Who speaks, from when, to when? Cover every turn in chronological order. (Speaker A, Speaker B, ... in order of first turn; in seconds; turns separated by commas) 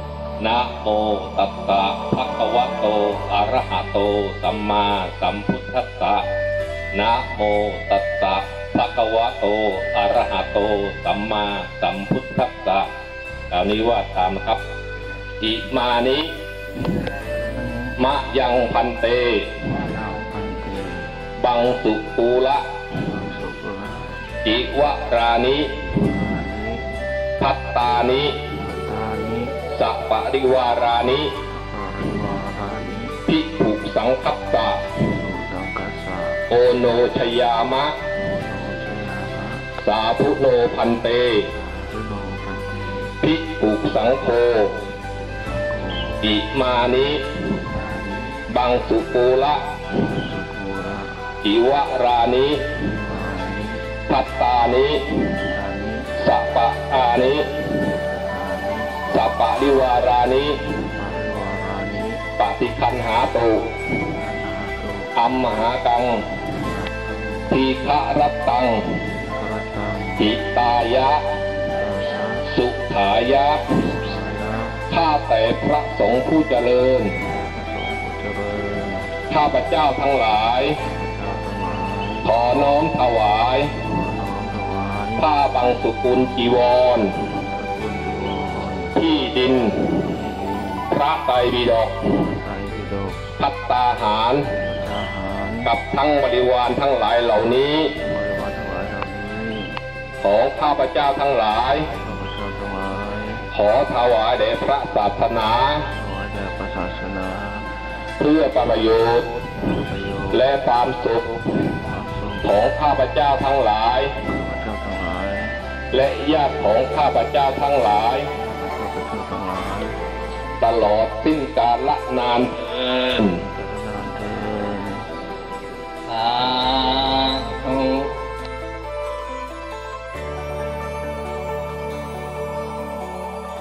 Speaker A: 0.4-6.2, Speaker A: 6.9-12.9, Speaker A: 13.5-14.6, Speaker A: 15.4-16.3, Speaker B: 17.4-18.0, Speaker A: 18.0-19.5, Speaker B: 19.8-21.1, Speaker A: 21.4-22.6, Speaker B: 23.1-24.3, Speaker A: 24.4-25.8, Speaker B: 25.8-26.8, Speaker A: 27.4-28.4, Speaker B: 28.6-29.5, Speaker A: 29.7-31.3, Speaker B: 31.6-33.1, Speaker A: 33.3-35.0, Speaker B: 35.1-36.5, Speaker A: 36.5-38.0, Speaker B: 38.3-39.7, Speaker A: 39.8-41.4, Speaker B: 41.6-43.1, Speaker A: 43.2-44.7, Speaker B: 45.0-46.4, Speaker A: 46.2-47.3, Speaker B: 47.7-48.5, Speaker A: 48.5-49.6, Speaker B: 50.0-51.3, Speaker A: 51.4-52.7, Speaker B: 52.9-53.9, Speaker A: 54.1-55.0, Speaker B: 55.5-56.1, Speaker A: 56.2-57.6, Speaker B: 57.9-59.0, Speaker A: 59.1-60.6, Speaker B: 60.8-62.2, Speaker A: 62.4-63.6, Speaker B: 64.2-65.1, Speaker A: 65.2-66.4, Speaker B: 66.6-67.6, Speaker A: 67.5-69.0, Speaker B: 69.2-70.3, Speaker A: 70.2-71.2, Speaker B: 71.7-72.4, Speaker A: 72.5-73.7, Speaker B: 73.8-74.8, Speaker A: 74.9-77.1, Speaker B: 77.2-79.2, Speaker A: 79.3-80.8, Speaker B: 80.8-82.3, Speaker A: 82.2-83.8, Speaker B: 83.9-85.3, Speaker A: 85.2-87.1, Speaker B: 87.3-89.0, Speaker A: 88.9-89.9, Speaker B: 90.1-90.9, Speaker A: 90.9-92.1, Speaker B: 92.3-93.3, Speaker A: 93.4-94.5, Speaker B: 94.6-95.7, Speaker A: 95.6-97.9, Speaker B: 98.0-99.8, Speaker A: 100.2-101.9, Speaker B: 102.0-103.5, Speaker A: 103.5-105.9, Speaker B: 105.9-107.7, Speaker A: 108.2-109.3, Speaker B: 109.8-110.5, Speaker A: 110.3-111.4, Speaker B: 111.9-112.5, Speaker A: 112.4-114.1, Speaker B: 114.3-115.6, Speaker A: 115.9-118.3, Speaker B: 118.5-120.0, Speaker A: 120.6-123.4, Speaker B: 123.4-125.1, Speaker C: 126.1-128.1